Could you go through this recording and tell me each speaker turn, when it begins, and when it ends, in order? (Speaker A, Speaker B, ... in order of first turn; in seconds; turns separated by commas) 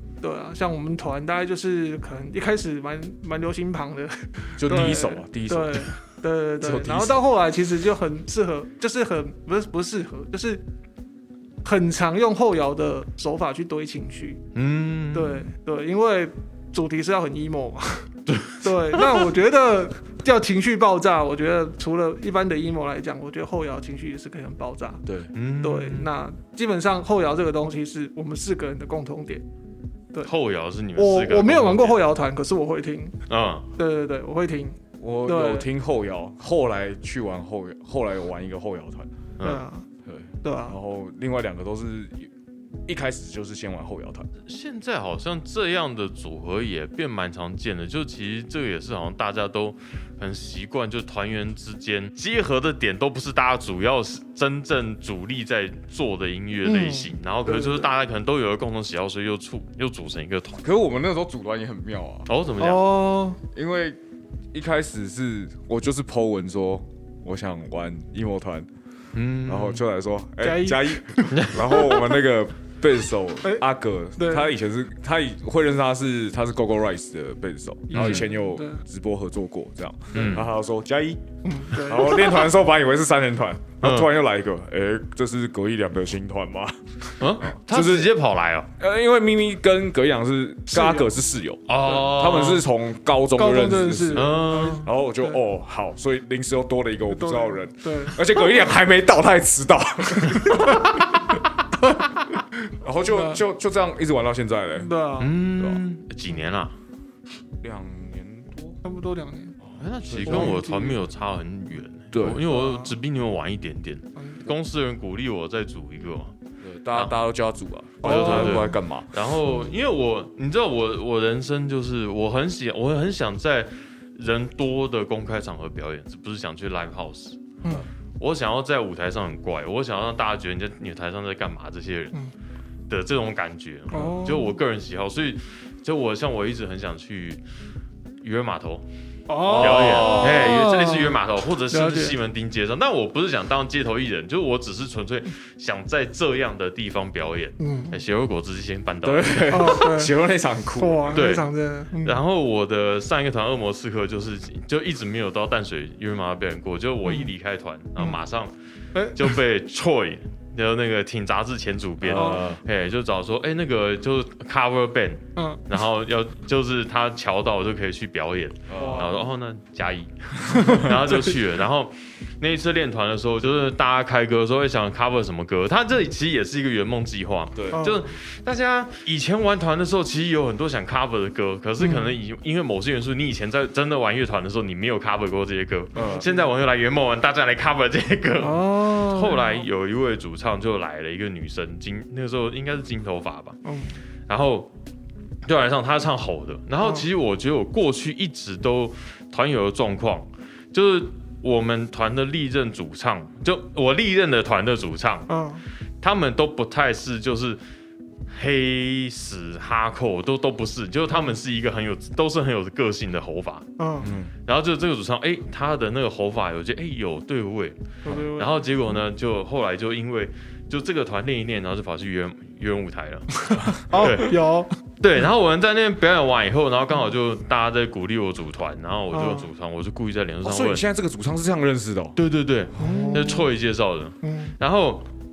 Speaker A: 0.2-10.6, Speaker B: 4.6-5.9, Speaker B: 6.6-7.2, Speaker A: 11.6-14.4, Speaker C: 14.5-15.5, Speaker A: 15.1-25.0, Speaker C: 18.3-19.2, Speaker B: 25.1-25.3, Speaker C: 25.3-26.1, Speaker A: 25.6-29.4, Speaker C: 30.2-32.0, Speaker A: 30.9-33.1, Speaker C: 33.3-33.7, Speaker A: 33.8-35.6, Speaker B: 35.0-39.1, Speaker C: 39.4-39.6, Speaker A: 39.4-39.8, Speaker B: 40.0-42.3, Speaker A: 40.4-40.8, Speaker B: 42.9-44.3, Speaker C: 44.5-60.6, Speaker A: 56.6-57.9, Speaker B: 60.6-62.3, Speaker C: 62.3-63.0, Speaker A: 62.6-63.4, Speaker B: 63.4-64.0, Speaker B: 64.5-68.7, Speaker C: 69.1-69.8, Speaker B: 69.4-88.1, Speaker A: 70.4-72.0, Speaker C: 71.3-71.6, Speaker A: 74.2-74.5, Speaker A: 77.9-78.8, Speaker C: 77.9-78.2, Speaker C: 80.1-80.5, Speaker A: 81.4-82.5, Speaker C: 83.8-84.1, Speaker C: 87.2-88.7, Speaker B: 88.8-101.4, Speaker A: 90.7-91.1, Speaker C: 91.7-92.7, Speaker A: 93.3-95.4, Speaker C: 94.1-94.9, Speaker A: 97.1-98.3, Speaker A: 100.6-100.8, Speaker B: 102.8-104.9, Speaker A: 103.1-103.4, Speaker A: 104.8-105.3, Speaker C: 105.2-106.7, Speaker B: 107.6-108.8, Speaker A: 108.8-109.6, Speaker C: 109.8-116.3, Speaker B: 110.0-110.6, Speaker A: 110.2-111.0, Speaker B: 112.1-112.4, Speaker A: 112.5-112.9, Speaker A: 114.2-114.4, Speaker B: 116.6-119.2, Speaker A: 118.0-118.8, Speaker C: 118.0-127.5, Speaker C: 128.2-132.2, Speaker C: 132.9-137.4, Speaker A: 133.9-134.5, Speaker C: 138.2-138.8, Speaker A: 139.3-141.2, Speaker B: 139.4-140.5, Speaker C: 139.5-149.7, Speaker A: 141.7-142.2, Speaker A: 147.6-148.0, Speaker B: 149.0-151.2, Speaker A: 149.5-150.1, Speaker A: 150.8-152.2, Speaker C: 151.1-158.5, Speaker A: 157.0-157.3, Speaker A: 158.9-159.3, Speaker C: 159.1-193.6, Speaker B: 162.0-162.6, Speaker A: 162.1-162.4, Speaker A: 165.3-165.6, Speaker B: 168.7-169.2, Speaker A: 168.8-169.2, Speaker A: 170.5-170.9, Speaker B: 177.5-177.8, Speaker A: 177.7-178.0, Speaker A: 181.8-182.1, Speaker A: 185.9-186.4, Speaker B: 185.9-186.3, Speaker A: 188.4-189.6, Speaker A: 193.6-193.9, Speaker C: 194.3-194.7, Speaker C: 195.4-205.3, Speaker A: 196.8-197.1, Speaker A: 205.3-205.6, Speaker C: 206.0-207.6, Speaker C: 208.3-224.3, Speaker A: 213.8-214.1, Speaker B: 214.0-214.3, Speaker A: 218.0-218.6, Speaker A: 223.5-224.7, Speaker C: 225.0-230.8, Speaker A: 229.1-229.5, Speaker B: 230.4-232.2, Speaker C: 232.2-235.1, Speaker A: 232.8-233.5, Speaker A: 234.2-234.5